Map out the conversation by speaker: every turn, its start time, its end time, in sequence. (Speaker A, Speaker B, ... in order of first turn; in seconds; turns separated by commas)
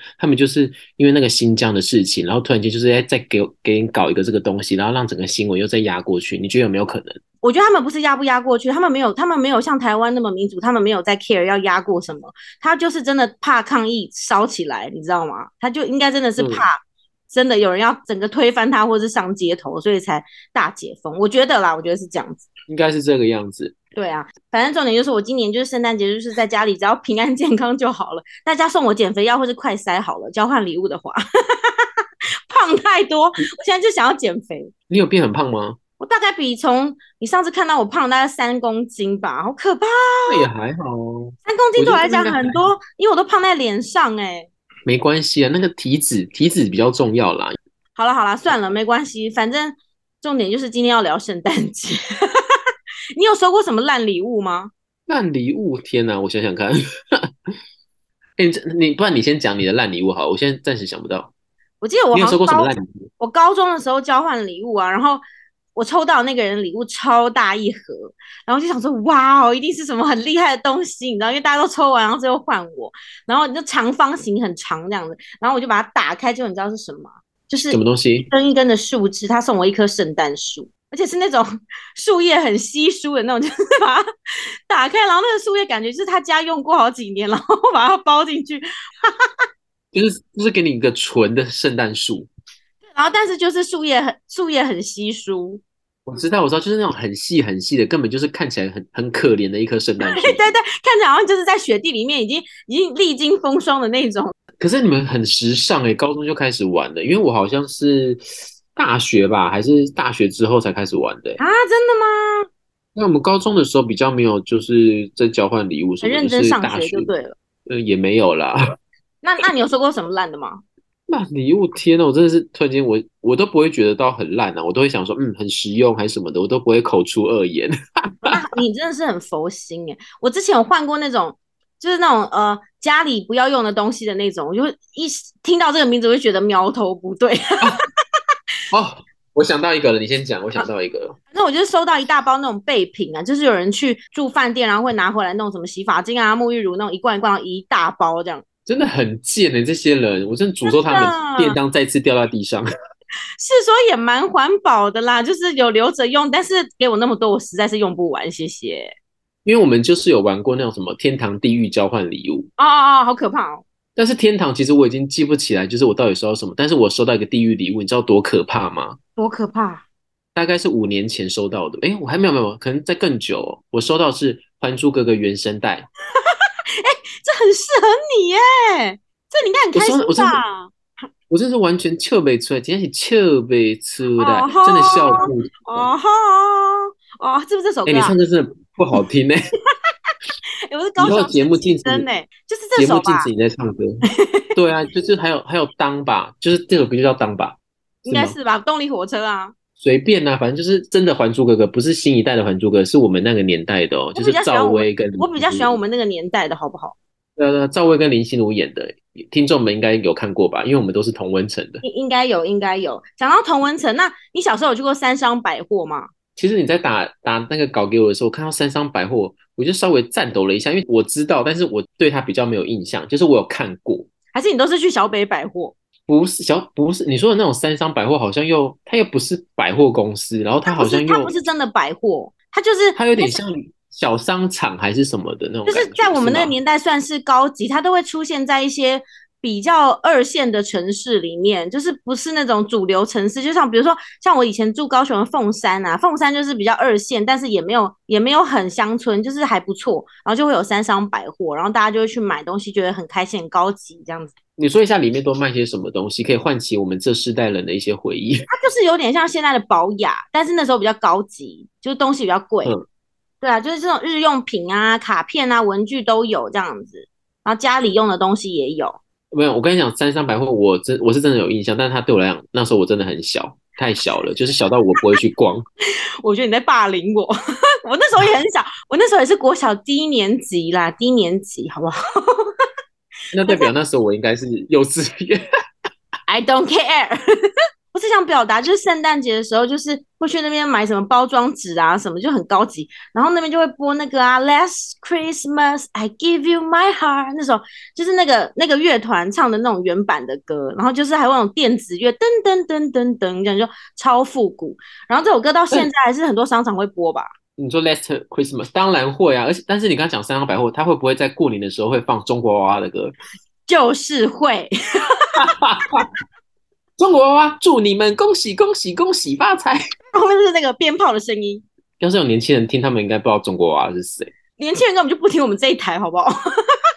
Speaker A: 0.2-7.2, Speaker B: 7.4-16.8, Speaker A: 16.4-16.6, Speaker B: 17.3-22.4, Speaker A: 22.7-23.7, Speaker B: 23.9-31.9, Speaker B: 32.5-34.7, Speaker A: 34.9-35.8, Speaker B: 36.0-40.5, Speaker A: 40.3-42.6, Speaker B: 41.4-44.5, Speaker A: 44.9-47.5, Speaker B: 48.0-52.4, Speaker B: 53.1-54.7, Speaker A: 55.1-57.3, Speaker A: 58.4-61.3, Speaker B: 61.8-65.2, Speaker A: 62.1-63.0, Speaker B: 65.7-84.0, Speaker A: 77.7-78.3, Speaker B: 84.7-89.1, Speaker A: 89.9-92.3, Speaker B: 92.9-95.6, Speaker A: 96.0-100.4, Speaker B: 100.0-104.3, Speaker A: 104.6-108.2, Speaker A: 108.7-111.4, Speaker B: 111.4-112.5, Speaker A: 112.9-117.1, Speaker B: 116.0-117.3, Speaker A: 117.7-118.7, Speaker B: 119.2-120.6, Speaker A: 121.1-128.4, Speaker B: 128.2-137.8, Speaker A: 138.7-141.2, Speaker B: 141.3-148.4, Speaker A: 148.7-152.7, Speaker B: 150.7-151.6, Speaker B: 153.4-158.9, Speaker A: 159.4-162.5, Speaker B: 162.6-163.6, Speaker A: 163.9-169.0, Speaker B: 169.2-169.8, Speaker A: 170.3-175.9, Speaker B: 176.2-180.7, Speaker A: 179.7-180.4, Speaker A: 181.3-185.9, Speaker B: 184.2-188.1, Speaker A: 187.8-189.4, Speaker B: 190.7-193.3, Speaker A: 191.0-192.1, Speaker A: 192.8-194.0, Speaker B: 194.1-194.5, Speaker A: 194.6-198.3, Speaker B: 198.1-199.5, Speaker A: 199.8-205.7, Speaker B: 204.2-206.9, Speaker A: 207.4-211.8, Speaker B: 211.8-216.1, Speaker A: 216.3-224.1, Speaker B: 224.3-225.7, Speaker A: 226.1-231.3, Speaker B: 230.7-233.4, Speaker A: 232.9-236.5, Speaker B: 235.7-254.3, Speaker A: 254.6-258.4, Speaker B: 258.5-262.7, Speaker B: 263.4-269.0, Speaker A: 269.3-275.6, Speaker B: 276.2-277.3, Speaker B: 277.9-282.5, Speaker A: 283.3-285.4, Speaker B: 286.3-287.2, Speaker B: 287.9-307.3, Speaker A: 307.6-313.1, Speaker B: 313.7-315.4, Speaker A: 315.4-316.1, Speaker A: 317.0-319.8, Speaker B: 320.1-321.6, Speaker A: 322.0-324.3, Speaker B: 324.6-326.3